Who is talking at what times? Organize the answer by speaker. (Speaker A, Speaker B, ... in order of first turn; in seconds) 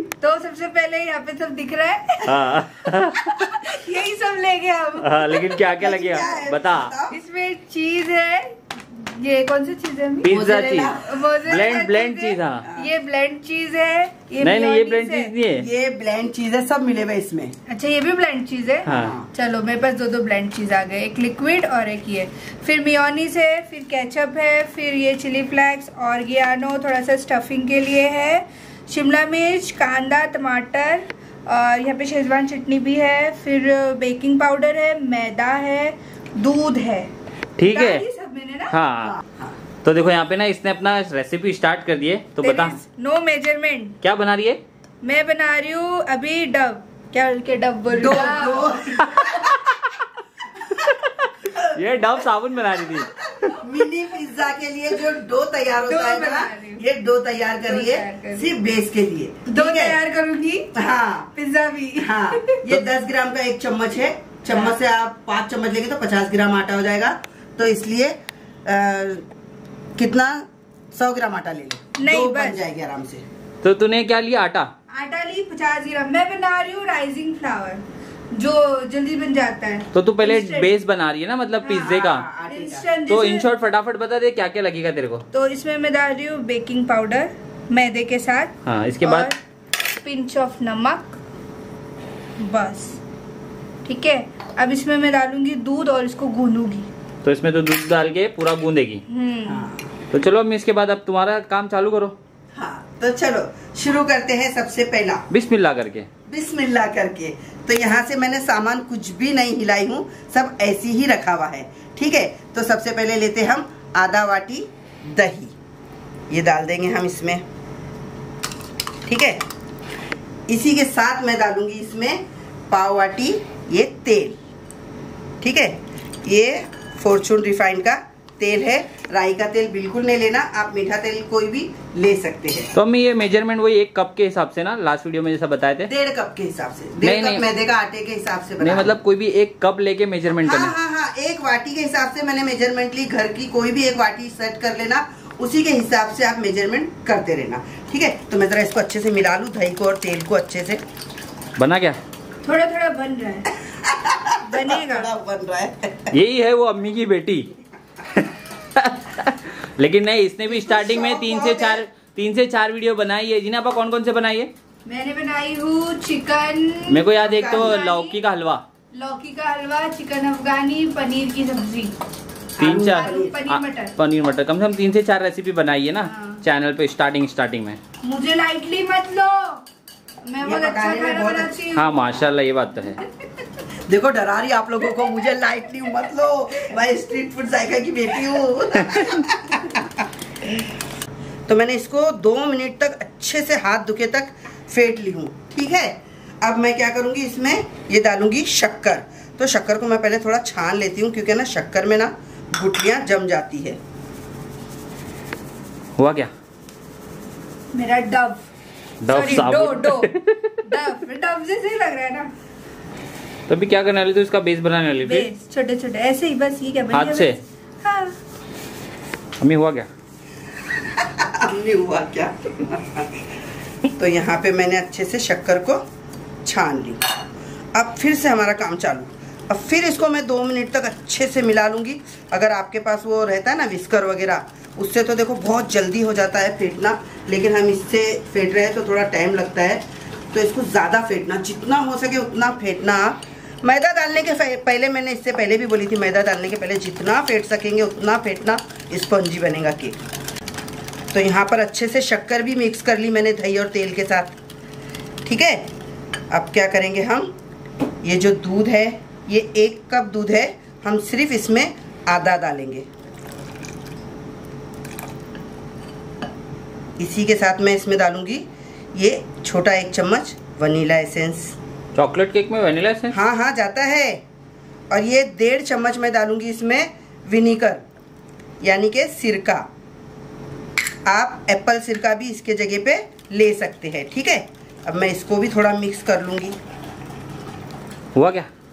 Speaker A: 0.2-2.3, 3.2-5.5, 7.1-10.4, 11.0-15.3, 17.7-37.1, 37.7-38.7, 42.4-44.0, 45.0-49.1, 55.9-56.8, 57.7-58.5, 59.5-60.7, 61.3-62.7, 64.5-64.7, 72.0-72.6, 74.9-80.7, 81.6-83.5, 85.3-91.2, 92.4-93.0, 93.8-96.9, 99.1-99.7, 152.4-153.5, 154.4-155.1, 164.8-168.2, 168.9-171.9, 172.6-173.9, 176.0-176.4, 178.0-179.6, 180.2-182.3, 207.7-208.4, 209.1-212.3, 215.0-218.2
Speaker B: 2.2-3.5, 5.0-6.9, 10.2-12.7, 14.4-15.7, 18.9-19.1, 37.6-38.0, 38.7-39.2, 39.8-42.8, 44.0-44.6, 49.0-49.4, 51.6-53.1, 73.6-74.7, 79.9-82.2, 83.1-85.2, 88.6-89.3, 97.2-99.0, 100.1-102.2, 105.3-106.1, 132.7-135.9, 137.0-137.4, 138.6-140.7, 151.6-152.0, 156.1-157.5, 158.1-164.5, 166.9-168.6, 172.6-177.8, 181.7-183.0, 188.9-189.2, 206.0-206.3, 209.0-210.6, 213.5-215.3, 216.9-217.4, 219.4-219.9, 271.9-273.1, 288.1-288.5
Speaker C: 5.8-7.2, 10.3-11.2, 15.6-17.5, 18.9-19.3, 39.1-39.5, 47.9-49.6, 53.5-60.0, 60.7-61.3, 62.0-69.2, 70.0-73.2, 81.9-82.8, 99.5-99.9, 102.5-105.2, 106.3-115.5, 116.3-117.4, 119.0-119.4, 120.5-124.4, 125.4-132.7, 135.9-138.9, 140.4-150.8, 153.7-156.1, 160.5-161.8, 167.4-167.8, 172.6-173.4, 180.4-181.6, 183.8-190.1, 191.5-203.8, 220.8-223.3, 224.0-225.8, 226.4-227.2, 227.7-250.1, 251.1-254.4, 255.2-255.7, 256.3-257.3, 258.0-262.9, 267.0-271.6, 273.1-274.2, 274.9-277.8, 278.6-279.7, 281.1-286.6